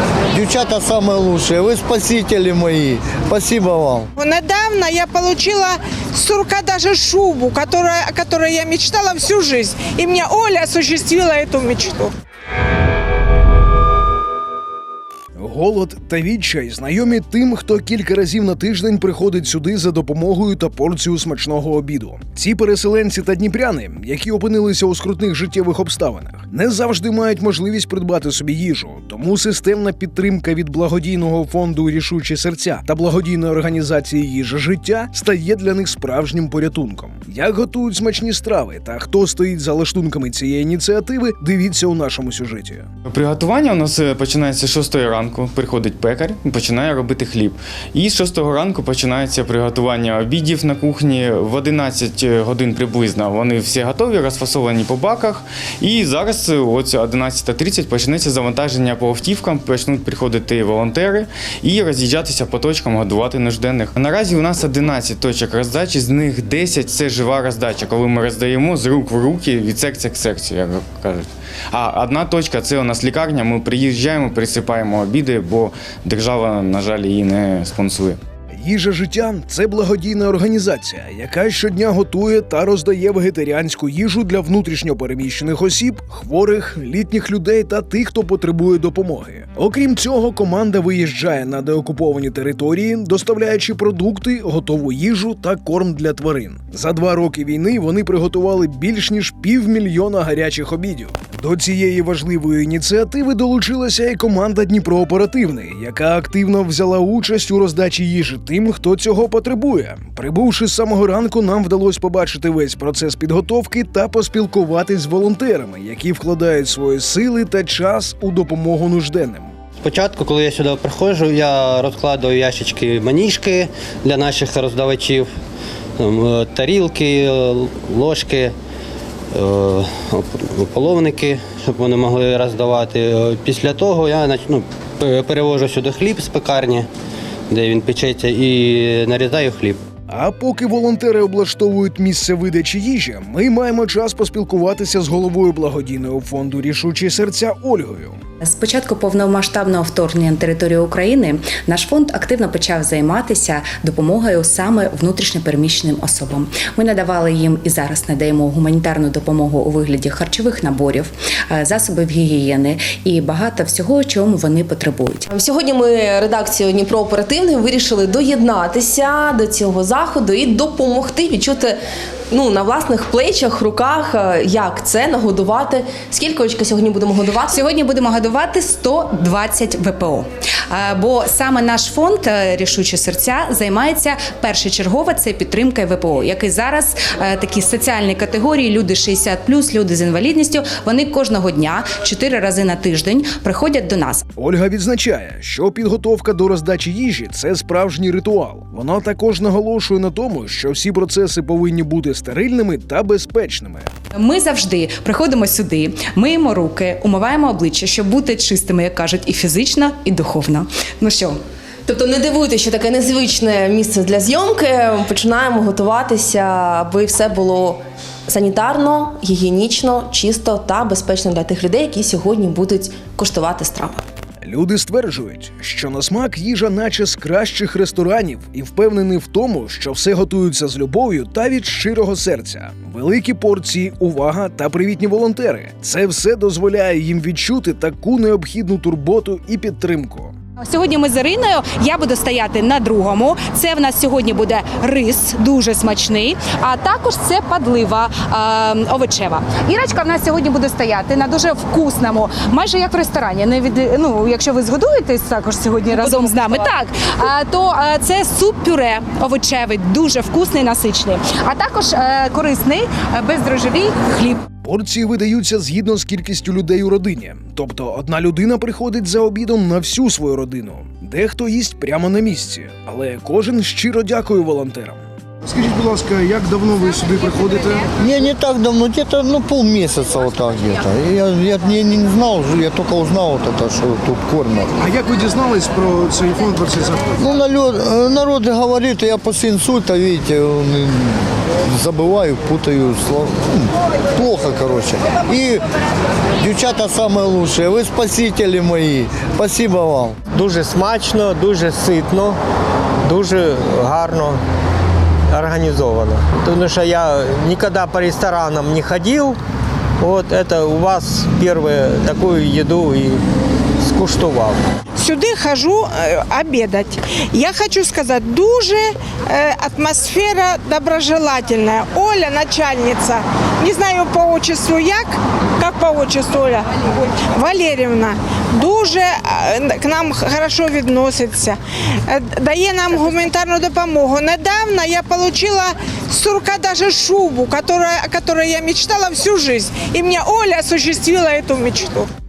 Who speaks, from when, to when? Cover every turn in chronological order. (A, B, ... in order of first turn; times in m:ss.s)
0:00.3-0:04.1 A
0:04.2-0:12.1 B
0:15.4-0:42.9 C
0:43.0-1:18.2 D
1:18.6-1:59.5 C
1:59.8-2:05.3 E
2:06.0-2:08.5 E
2:09.3-2:16.9 E
2:17.5-2:19.8 E
2:20.1-2:28.2 C
2:28.4-2:45.3 F
2:45.3-2:51.8 G
2:52.3-2:57.6 G
2:57.5-3:14.2 F
3:14.4-3:23.9 C
3:24.1-3:31.4 F
3:31.9-3:44.0 G
3:44.4-4:00.3 C
4:00.6-4:24.4 F
4:24.6-4:37.9 C
4:38.0-4:44.7 A
4:44.8-4:47.1 C
4:47.1-4:55.6 A
4:56.4-5:00.2 A
5:00.3-5:02.4 H
5:03.0-5:04.4 H
5:05.3-5:09.4 H
5:10.0-5:13.2 H
5:13.8-5:14.6 H
5:15.0-5:42.1 B